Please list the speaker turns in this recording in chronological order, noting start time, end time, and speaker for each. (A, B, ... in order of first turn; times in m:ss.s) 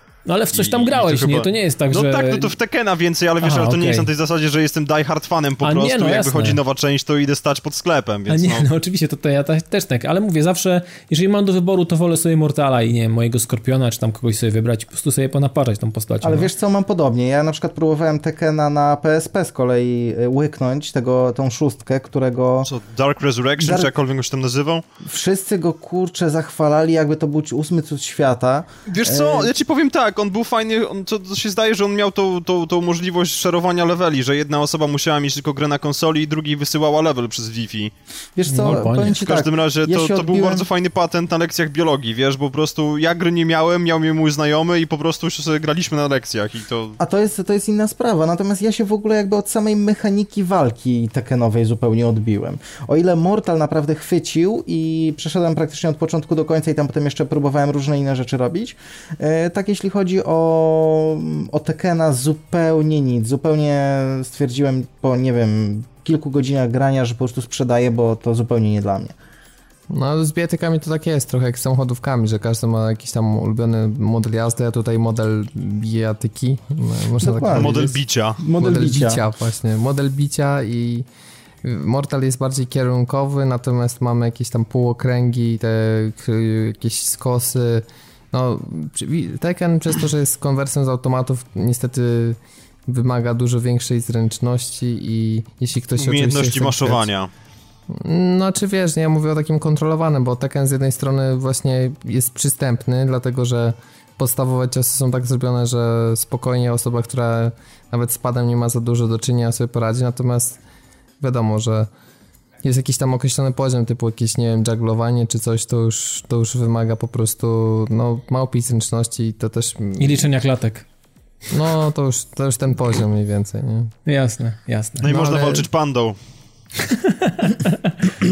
0:00.3-0:02.5 A
0:00.5-0:08.7 B
0:03.4-0:04.1 A
0:05.6-0:06.6 A
0:08.3-0:16.5 A
0:16.2-0:22.7 C
0:22.7-0:24.8 B
0:23.6-0:23.9 C
0:25.0-0:29.5 C
0:28.9-0:37.9 B
0:38.4-0:40.7 C
0:38.5-0:39.2 A
0:39.1-0:47.0 B
0:47.0-1:09.2 C
1:09.9-1:18.0 D
1:17.2-1:17.9 C
1:17.4-1:18.4 B
1:18.4-1:19.2 C
1:18.5-1:21.1 D
1:21.6-1:37.1 D
1:36.0-1:37.3 B
1:37.9-1:50.6 D
1:51.2-1:51.9 D
1:52.6-2:00.2 D
2:00.0-2:00.9 A
2:01.5-2:03.9 D
2:04.1-2:05.1 A
2:05.0-2:06.2 B
2:05.1-2:05.7 D
2:06.8-2:08.1 A